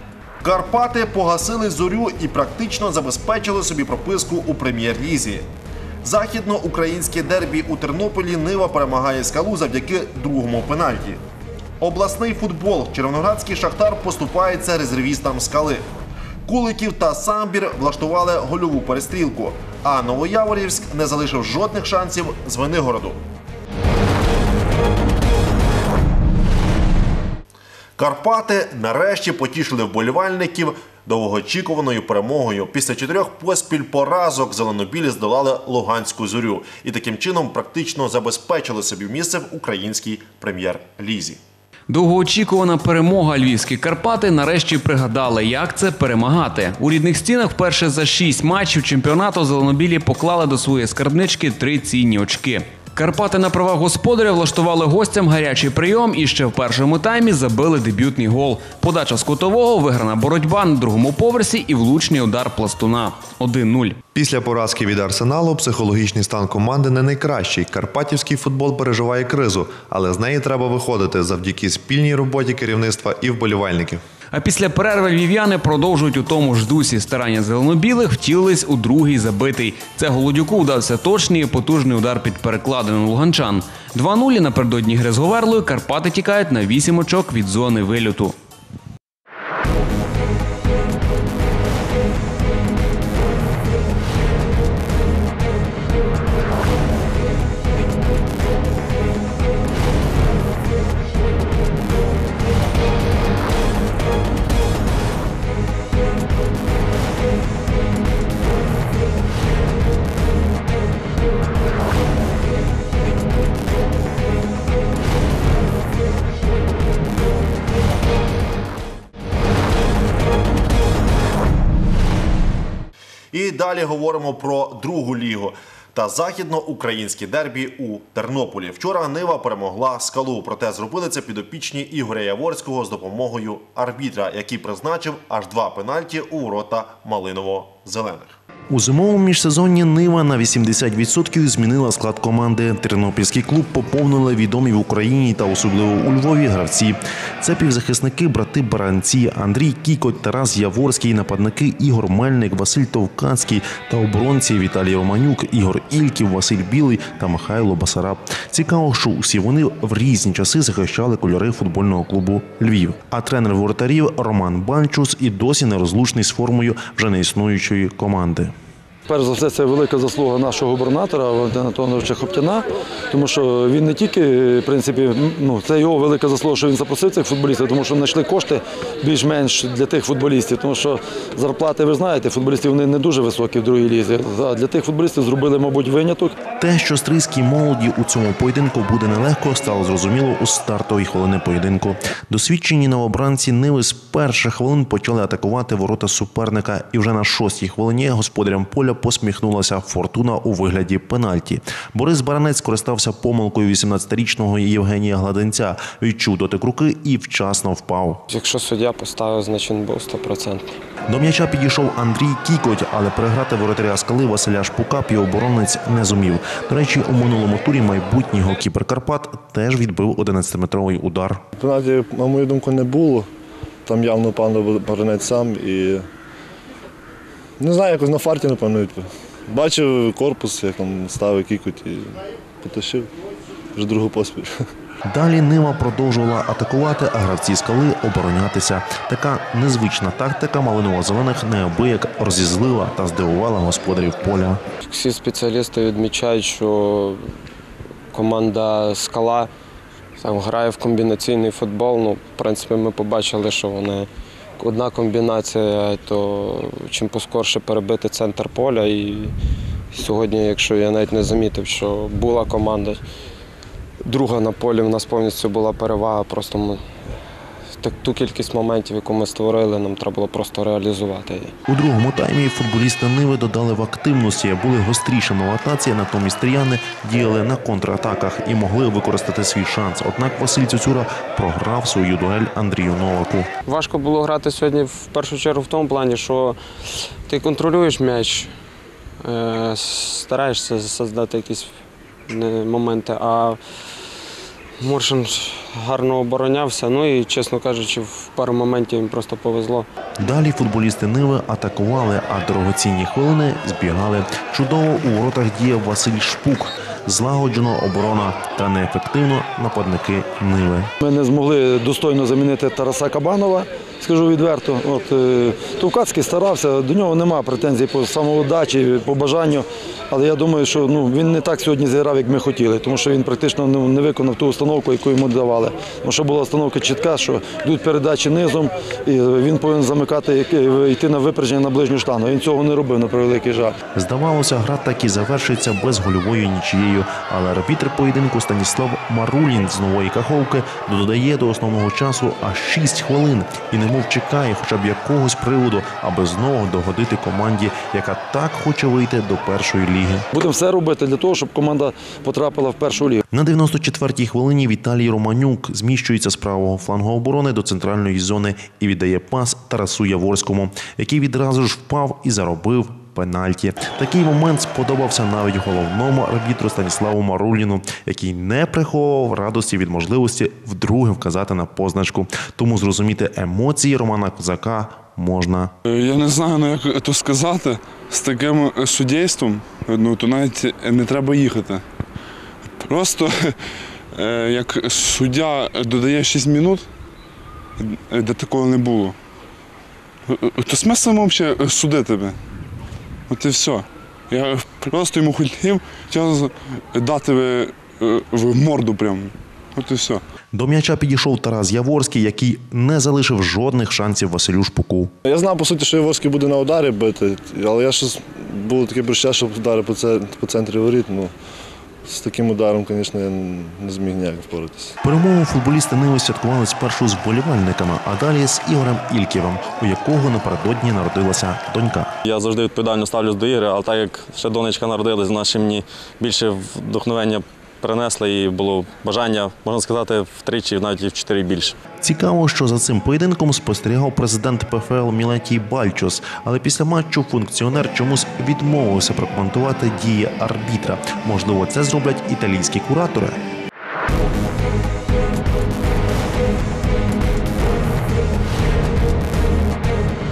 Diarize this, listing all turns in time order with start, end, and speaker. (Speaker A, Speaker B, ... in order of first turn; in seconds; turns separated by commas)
Speaker A: 0.4-5.5, Speaker A: 6.0-11.2, Speaker A: 11.8-15.9, Speaker A: 16.4-23.2, Speaker A: 28.0-41.4, Speaker B: 41.9-64.0, Speaker C: 64.1-74.0, Speaker B: 74.3-88.3, Speaker A: 123.3-138.4, Speaker D: 138.7-168.5, Speaker E: 169.1-186.3, Speaker D: 186.6-208.2, Speaker F: 208.3-210.7, Speaker D: 211.1-221.4, Speaker G: 221.6-223.3, Speaker G: 223.8-226.0, Speaker G: 227.6-233.1, Speaker G: 233.8-234.5, Speaker D: 235.0-244.6, Speaker F: 244.8-247.2, Speaker F: 248.1-249.5, Speaker F: 250.2-254.1, Speaker F: 254.6-259.3, Speaker F: 259.9-263.0, Speaker F: 264.0-266.9, Speaker F: 267.8-271.5, Speaker D: 271.7-283.5, Speaker F: 283.6-286.6, Speaker F: 287.2-288.5, Speaker F: 289.2-291.8, Speaker F: 292.3-293.6, Speaker F: 294.8-299.9, Speaker D: 300.2-310.9, Speaker E: 311.0-333.8, Speaker D: 333.9-350.2, Speaker E: 350.3-353.2, Speaker D: 353.3-375.7, Speaker H: 375.9-381.8, Speaker H: 382.8-383.6, Speaker H: 384.1-386.9, Speaker H: 387.8-389.1, Speaker H: 390.3-392.4, Speaker H: 393.3-400.2, Speaker D: 400.5-405.1, Speaker G: 405.2-411.3, Speaker G: 412.0-414.9, Speaker D: 415.0-422.1, Speaker I: 422.2-431.8, Speaker D: 432.0-443.4